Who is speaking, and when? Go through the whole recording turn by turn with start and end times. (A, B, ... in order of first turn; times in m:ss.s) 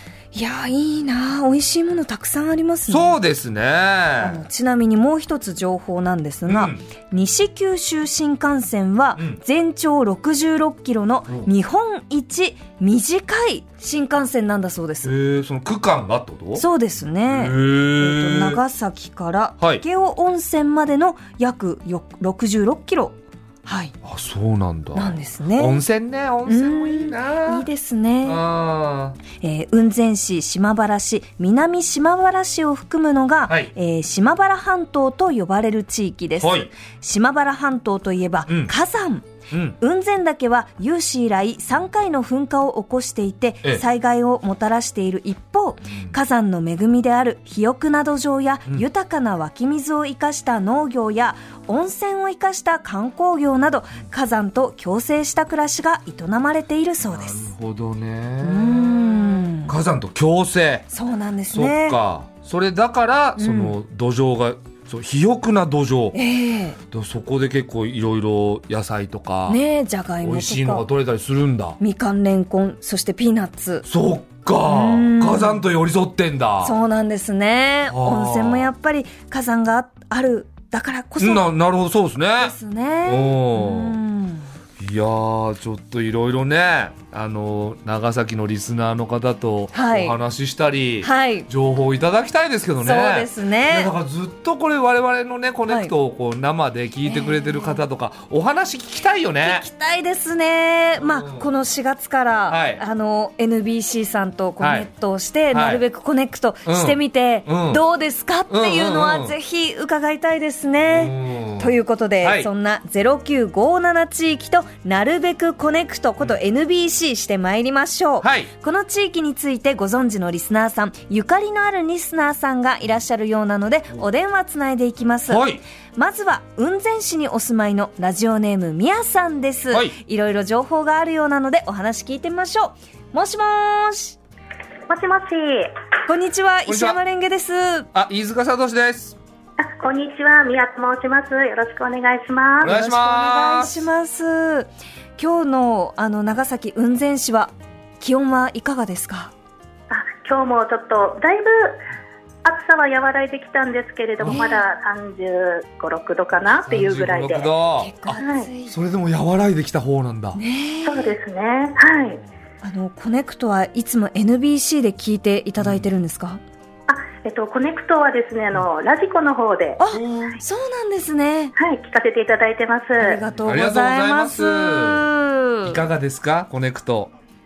0:00.3-0:03.2 A
0:02.9-0:04.4 B
0:04.2-0:15.2 A
0:06.5-0:06.8 B
0:15.0-0:16.7 B
0:16.6-0:23.9 A
0:17.3-0:18.6 B
0:24.0-0:27.7 B
0:25.0-0:25.8 A
0:26.5-0:28.4 A
0:28.2-0:29.2 B
0:29.3-0:57.5 A
0:36.4-0:36.7 B
0:38.5-0:38.7 B
0:39.5-0:39.8 B
0:57.0-1:00.9 B
0:58.4-0:59.8 A
1:00.9-1:02.0 A
1:01.5-1:06.2 B
1:03.4-1:03.8 A
1:06.1-1:06.8 A
1:06.9-1:09.6 B
1:09.5-1:10.9 A
1:10.2-1:11.8 B
1:11.8-1:13.9 A
1:13.9-1:16.8 B
1:14.6-1:15.6 A
1:16.6-1:21.5 A
1:17.9-1:18.7 B
1:21.2-1:22.6 B
1:22.4-1:24.5 A
1:23.1-1:24.0 B
1:24.8-1:39.7 B
1:29.7-1:30.2 A
1:31.0-1:31.5 A
1:32.8-1:33.9 A
1:37.0-1:37.8 A
1:39.4-2:05.4 A
1:41.0-1:41.5 B
1:42.5-1:42.8 B
1:44.6-1:44.9 B
1:45.5-1:45.8 B
1:46.6-1:47.8 B
1:48.5-1:49.4 B
1:50.9-1:52.5 B
1:58.2-1:58.5 B
2:05.3-2:05.6 B
2:06.0-2:14.2 A
2:09.7-2:10.0 B
2:14.9-2:15.7 C
2:16.1-2:17.9 A
2:16.7-2:17.0 B
2:17.9-2:19.2 B
2:19.6-2:22.7 C
2:22.6-2:23.9 B
2:22.6-2:29.3 A
2:29.9-2:31.8 C
2:32.4-2:37.5 C
2:34.2-2:34.6 A
2:36.5-2:40.4 B
2:37.8-2:38.8 A
2:38.2-2:38.5 C
2:40.4-2:41.2 A
2:40.8-2:42.2 C
2:42.6-2:46.4 A
2:45.6-2:45.9 B
2:46.9-2:49.8 C
2:49.8-2:51.5 A
2:49.9-2:50.4 B
2:51.6-2:53.2 C
2:53.0-2:55.8 A
2:53.3-2:55.1 B
2:55.6-2:57.1 B